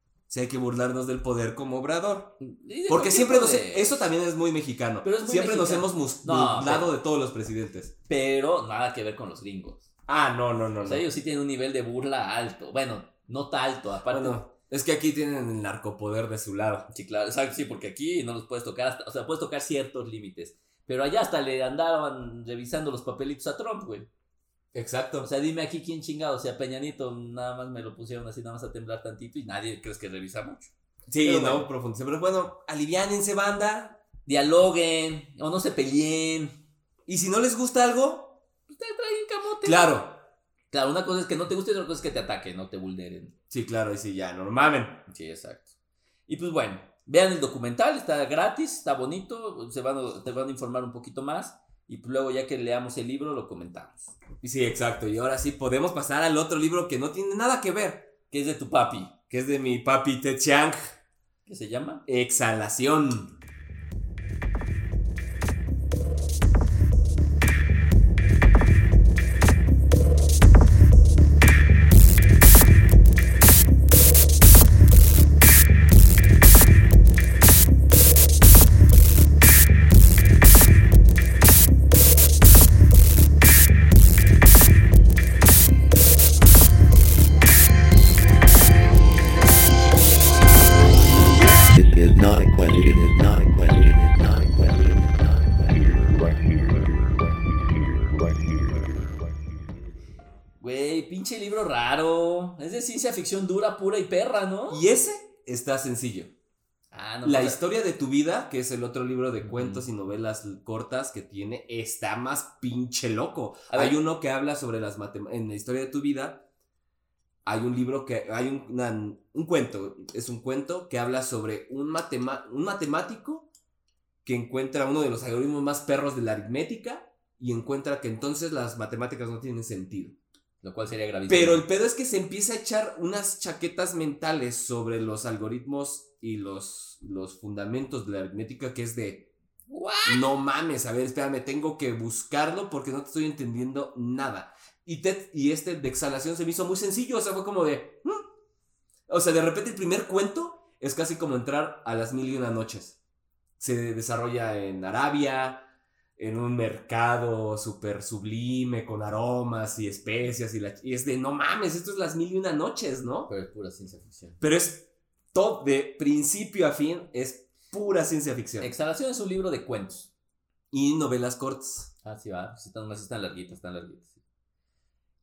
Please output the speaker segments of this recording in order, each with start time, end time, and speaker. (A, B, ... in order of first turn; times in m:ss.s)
0:00.3-0:07.9 A
0:02.4-0:04.0 B
0:05.0-0:06.9 B
0:08.1-0:09.9 B
0:10.1-0:11.0 A
0:10.8-0:14.4 B
0:14.1-0:16.9 A
0:16.9-0:24.1 B
0:24.7-0:25.3 A
0:25.2-0:30.7 B
0:31.1-0:34.0 A
0:31.2-0:31.7 B
0:34.2-0:36.6 B
0:37.1-0:38.4 A
0:38.7-0:40.0 B
0:39.6-0:40.2 A
0:40.7-0:43.3 B
0:43.5-0:45.0 A
0:45.1-0:45.7 B
0:46.3-0:54.1 B
0:54.4-0:58.1 A
0:58.3-0:59.2 B
0:59.3-1:00.9 A
1:01.4-1:02.0 B
1:02.1-1:03.4 A
1:31.6-1:35.9 C
1:40.6-1:44.8 B
1:44.7-1:46.3 A
1:46.9-1:47.6 B
1:47.2-1:56.4 A
1:49.4-1:49.8 B
1:53.7-1:54.0 B
1:57.4-2:03.5 A
2:04.2-2:10.2 A
2:10.6-2:11.6 B
2:11.3-2:19.3 A
2:19.7-2:20.2 B
2:20.0-2:28.2 A
2:29.1-2:33.0 A
2:33.6-2:43.3 A
2:43.3-2:44.4 B
2:44.4-2:48.7 A
2:48.6-2:50.1 B
2:50.7-2:51.9 A
2:52.0-2:54.1 B